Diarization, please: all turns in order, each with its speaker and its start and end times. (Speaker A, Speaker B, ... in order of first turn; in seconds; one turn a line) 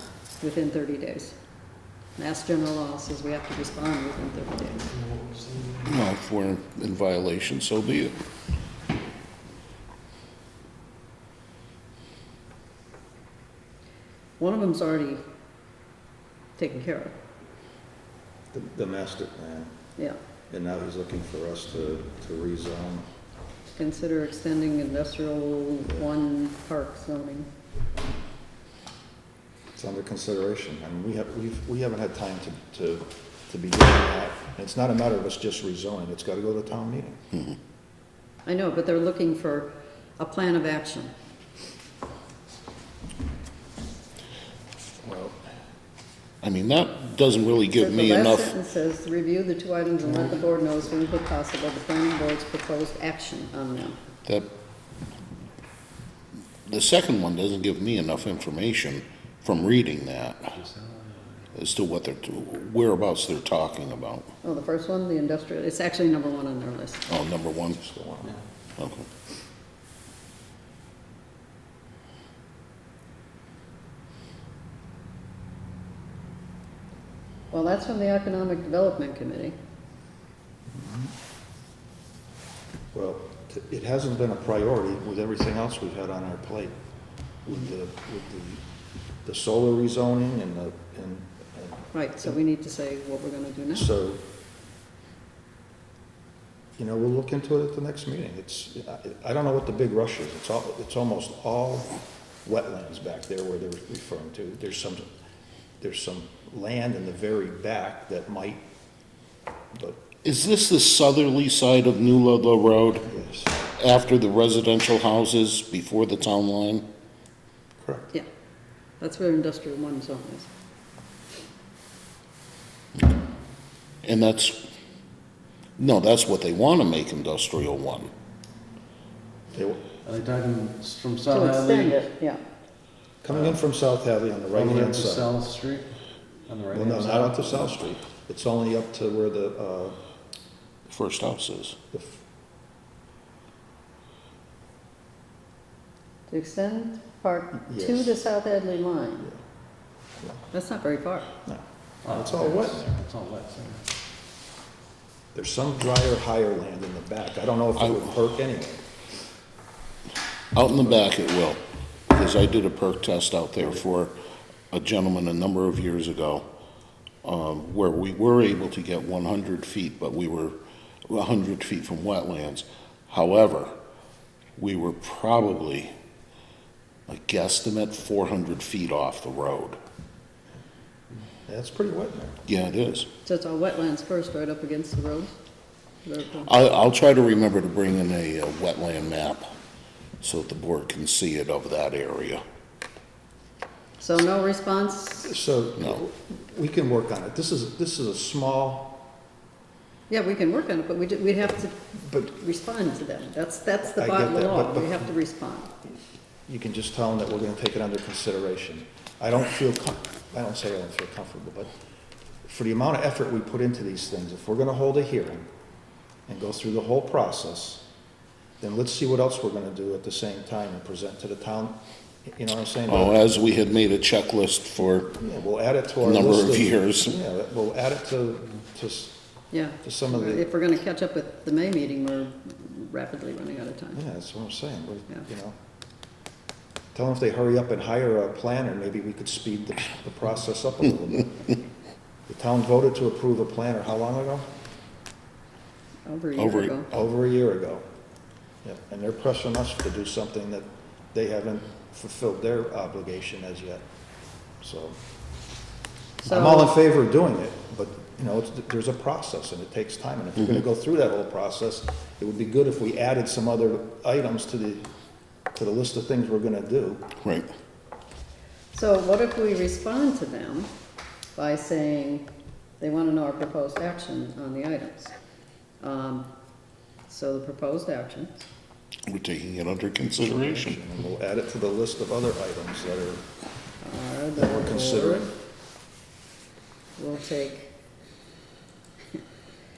Speaker A: 0.4-1.4
Speaker A: 2.2-4.9
Speaker B: 5.8-8.2
Speaker A: 14.4-15.2
Speaker A: 16.6-17.1
Speaker C: 18.5-19.7
Speaker C: 20.5-23.1
Speaker A: 23.8-27.5
Speaker C: 29.7-37.2
Speaker A: 38.5-41.1
Speaker C: 45.0-45.4
Speaker B: 46.4-48.5
Speaker A: 47.8-54.0
Speaker B: 54.2-54.5
Speaker B: 56.6-60.6
Speaker D: 60.6-61.1
Speaker B: 61.5-64.3
Speaker A: 64.4-67.1
Speaker B: 67.1-67.8
Speaker C: 67.8-68.4
Speaker B: 68.8-69.1
Speaker A: 77.5-79.5
Speaker C: 80.7-81.1
Speaker C: 82.9-86.7
Speaker C: 87.4-88.6
Speaker C: 89.2-92.4
Speaker A: 91.9-93.9
Speaker C: 93.7-94.2
Speaker C: 96.8-105.1
Speaker C: 105.8-108.6
Speaker C: 109.7-110.0
Speaker B: 110.2-113.1
Speaker C: 113.1-113.7
Speaker B: 113.8-116.8
Speaker C: 117.8-118.1
Speaker A: 119.0-120.5
Speaker B: 124.0-124.6
Speaker B: 125.8-128.1
Speaker C: 129.5-129.8
Speaker D: 130.0-132.0
Speaker A: 131.3-132.4
Speaker C: 133.2-135.3
Speaker D: 133.3-133.6
Speaker D: 134.5-135.9
Speaker D: 136.5-137.9
Speaker C: 136.7-140.0
Speaker B: 140.9-141.8
Speaker C: 141.9-142.2
Speaker A: 146.3-149.3
Speaker C: 147.7-148.2
Speaker A: 150.5-151.3
Speaker C: 151.4-153.0
Speaker D: 152.0-153.9
Speaker C: 155.3-158.8
Speaker B: 157.8-158.1
Speaker B: 160.5-164.2
Speaker B: 164.7-166.5
Speaker B: 167.2-170.6
Speaker B: 171.1-173.7
Speaker B: 174.6-175.9
Speaker B: 177.1-179.8
Speaker C: 181.4-182.4
Speaker B: 182.5-183.1
Speaker A: 183.2-185.3
Speaker A: 186.0-186.5
Speaker B: 186.4-189.5
Speaker B: 190.2-192.4
Speaker A: 194.0-195.3
Speaker C: 195.2-199.0
Speaker A: 200.1-205.7
Speaker C: 203.8-205.0
Speaker C: 206.5-211.7
Speaker C: 212.4-215.5
Speaker C: 216.3-217.8
Speaker C: 218.6-223.1
Speaker B: 222.9-225.1
Speaker C: 225.1-229.2
Speaker B: 226.0-227.2
Speaker A: 229.5-234.0
Speaker C: 229.8-230.5
Speaker C: 233.9-235.6
Speaker C: 236.9-241.5
Speaker C: 242.3-244.5
Speaker A: 246.1-246.9
Speaker B: 246.4-246.8
Speaker C: 246.9-247.8
Speaker C: 248.6-253.8
Speaker C: 254.6-255.0
Speaker A: 256.2-256.7
Speaker C: 256.2-264.8
Speaker C: 265.5-267.1
Speaker B: 267.2-267.5
Speaker A: 268.7-270.7
Speaker A: 271.4-275.1
Speaker A: 275.8-276.3
Speaker A: 277.1-278.5
Speaker B: 279.1-280.8
Speaker C: 280.2-283.2
Speaker A: 283.8-285.3
Speaker C: 284.4-285.3
Speaker A: 287.0-287.7